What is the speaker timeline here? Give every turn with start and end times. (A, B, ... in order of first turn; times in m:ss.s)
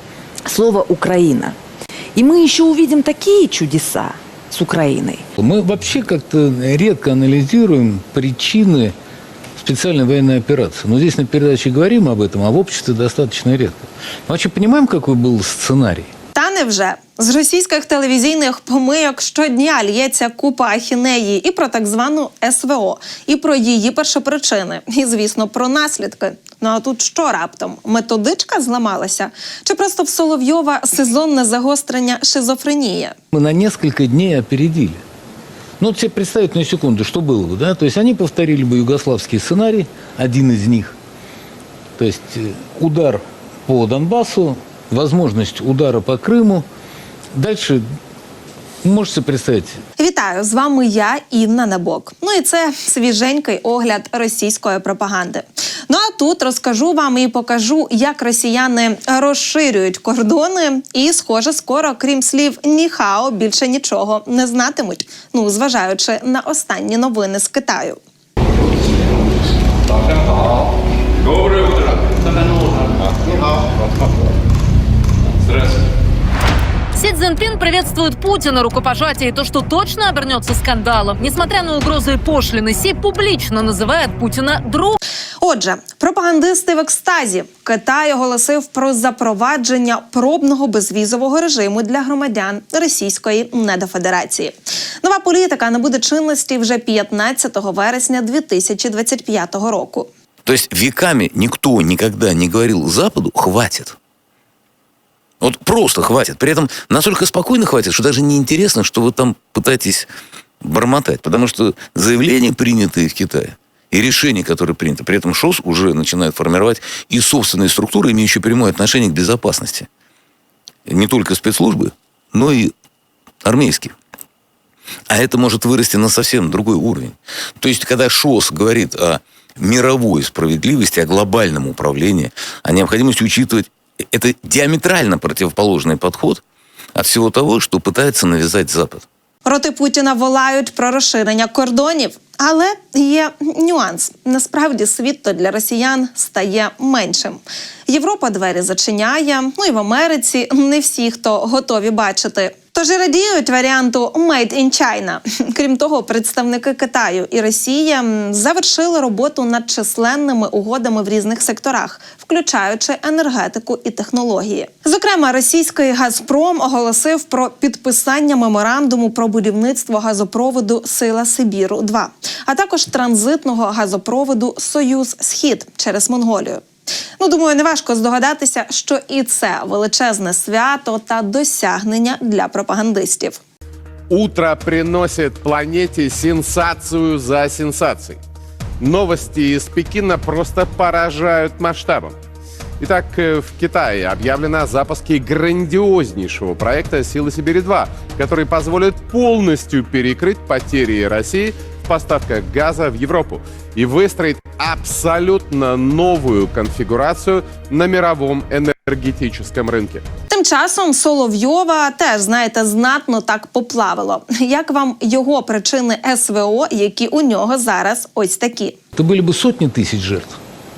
0:00.5-0:01.6 A
0:02.2-0:05.2 A
0:05.4-0:09.0 B
0:09.6-0:16.1 B
0:16.3-0:33.2 C
0:33.3-0:35.0 B
0:35.8-0:41.0 B
0:42.0-0:46.6 B
0:47.4-0:47.8 B
0:48.8-0:49.8 B
0:50.0-1:08.0 C
1:17.0-1:25.0 D
1:25.4-1:40.1 C
1:40.5-1:44.0 E
1:45.4-1:50.1 E
1:50.6-1:59.9 E
2:00.9-2:02.7 E
2:03.4-2:03.9 E
2:05.1-2:16.4 E
2:17.0-2:19.0 E
2:19.4-2:56.6 C
2:57.2-3:03.4 C
3:04.1-3:08.2 F
3:08.8-3:12.2 F
3:12.8-3:30.0 F
3:30.3-3:38.8 C
3:39.0-3:40.4 B